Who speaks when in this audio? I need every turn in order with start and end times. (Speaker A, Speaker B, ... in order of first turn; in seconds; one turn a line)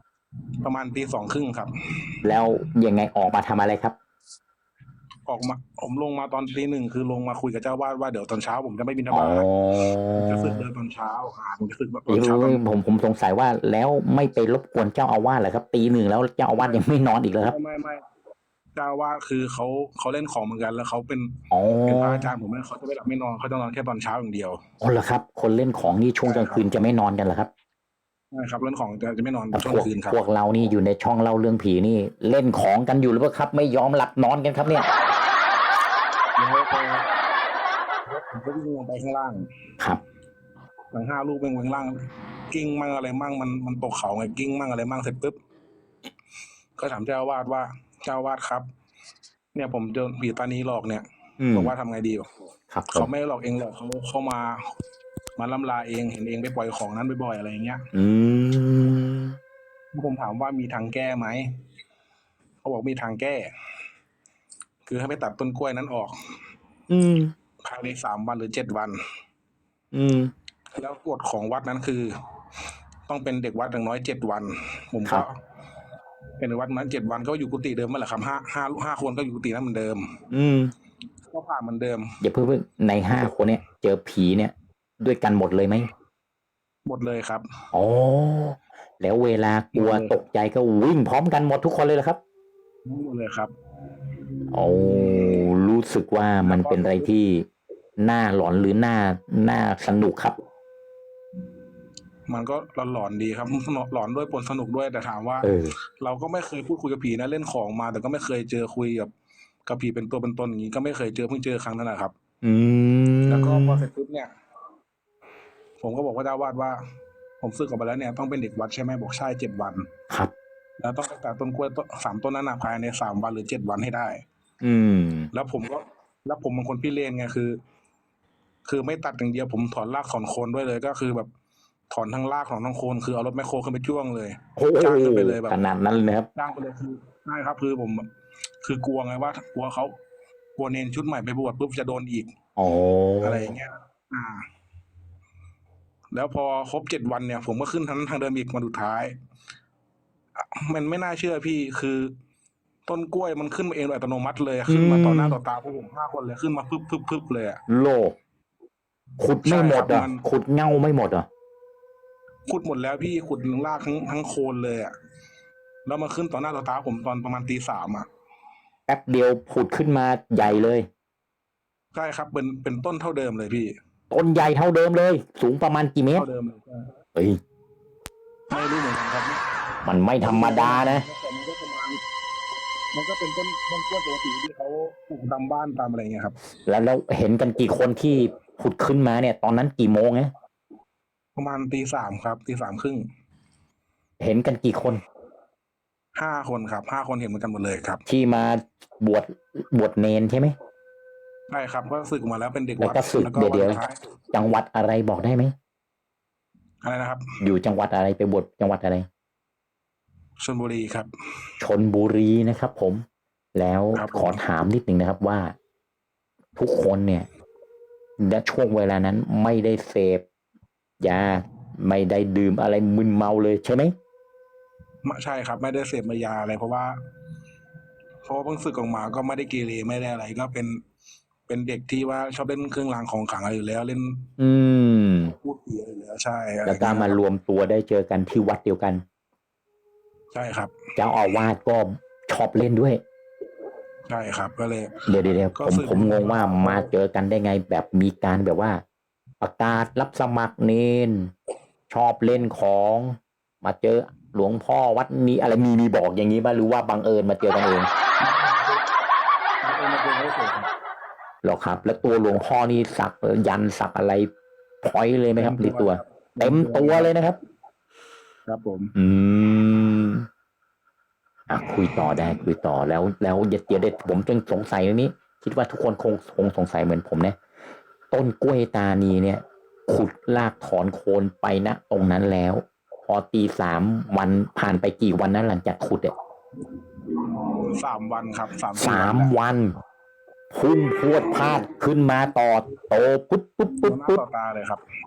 Speaker A: 0.6-2.1
Speaker B: 2.2-4.0
Speaker A: 5.3-9.5
Speaker B: 9.1-10.6
Speaker A: 10.2-12.6
Speaker B: 12.1-17.6
Speaker A: 17.5-18.0
Speaker A: 18.8-24.6
Speaker B: 21.5-22.3
Speaker B: 24.8-27.5
Speaker A: 26.2-26.6
Speaker A: 28.3-30.2
Speaker B: 29.5-34.9
Speaker A: 36.4-37.1
Speaker A: 38.1-39.5
Speaker A: 40.9-45.4
Speaker A: 46.8-48.7
Speaker A: 49.5-52.3
Speaker B: 51.4-51.7
Speaker B: 52.7-53.1
Speaker A: 52.9-54.6
Speaker A: 55.4-57.9
Speaker B: 57.9-59.4
Speaker A: 59.9-61.5
Speaker A: 62.6-63.5
Speaker A: 64.9-66.2
Speaker B: 66.9-67.3
Speaker A: 67.6-69.0
Speaker B: 69.9-70.3
Speaker A: 70.8-72.1
Speaker A: 73.1-75.4
Speaker A: 76.4-80.2
Speaker B: 80.3-80.7
Speaker A: 81.3-82.2
Speaker B: 82.2-85.9
Speaker A: 86.9-87.5
Speaker B: 87.7-92.2
Speaker A: 89.7-90.1
Speaker A: 92.9-93.5
Speaker B: 94.5-97.5
Speaker A: 94.6-95.5
Speaker A: 96.5-97.1
Speaker B: 98.0-100.4
Speaker A: 102.3-109.1
Speaker B: 105.4-105.8
Speaker A: 109.7-112.1
Speaker B: 112.4-113.9
Speaker A: 113.3-114.3
Speaker A: 115.8-116.8
Speaker A: 117.4-119.9
Speaker A: 120.8-124.2
Speaker B: 124.6-125.3
Speaker A: 125.3-127.6
Speaker A: 128.7-131.3
Speaker A: 131.9-135.6
Speaker B: 134.6-136.3
Speaker A: 136.4-138.1
Speaker A: 138.6-139.9
Speaker A: 140.6-142.3
Speaker B: 142.6-143.5
Speaker A: 143.2-144.5
Speaker A: 146.1-149.2
Speaker A: 150.4-152.1
Speaker A: 152.9-157.6
Speaker B: 154.7-155.4
Speaker B: 157.7-158.2
Speaker B: 159.2-161.3
Speaker A: 159.4-160.2
Speaker A: 162.5-164.9
Speaker A: 165.9-168.1
Speaker B: 168.9-170.9
Speaker A: 171.9-173.7
Speaker B: 174.1-176.3
Speaker A: 176.2-176.9
Speaker A: 178.5-179.4
Speaker B: 179.8-181.1
Speaker A: 180.2-182.0
Speaker A: 182.9-186.4
Speaker B: 186.7-190.3
Speaker A: 191.4-193.0
Speaker B: 194.2-195.0
Speaker A: 196.2-198.0
Speaker B: 198.1-200.6
Speaker A: 201.5-204.0
Speaker B: 202.8-203.8
Speaker B: 204.3-205.5
Speaker A: 206.8-207.4
Speaker B: 207.4-209.1
Speaker A: 210.4-211.1
Speaker B: 211.6-215.6
Speaker A: 213.9-214.4
Speaker B: 216.6-217.3
Speaker B: 218.2-220.2
Speaker B: 221.0-223.9
Speaker A: 225.0-226.9
Speaker A: 228.3-230.8
Speaker A: 231.5-234.3
Speaker B: 234.4-235.3
Speaker A: 235.4-237.2
Speaker B: 236.7-239.0
Speaker A: 240.3-240.8
Speaker B: 241.0-243.0
Speaker A: 244.1-245.0
Speaker B: 245.1-248.8
Speaker A: 245.6-246.9
Speaker B: 249.4-251.3
Speaker B: 251.9-257.9
Speaker A: 258.2-258.8
Speaker A: 259.6-260.7
Speaker B: 261.4-264.3
Speaker B: 264.8-267.4
Speaker A: 265.4-267.1
Speaker A: 268.5-268.9
Speaker B: 269.0-270.3
Speaker B: 271.5-277.4
Speaker B: 278.1-286.1
Speaker A: 287.5-289.3
Speaker B: 288.8-289.7
Speaker B: 290.5-294.2
Speaker A: 293.8-294.8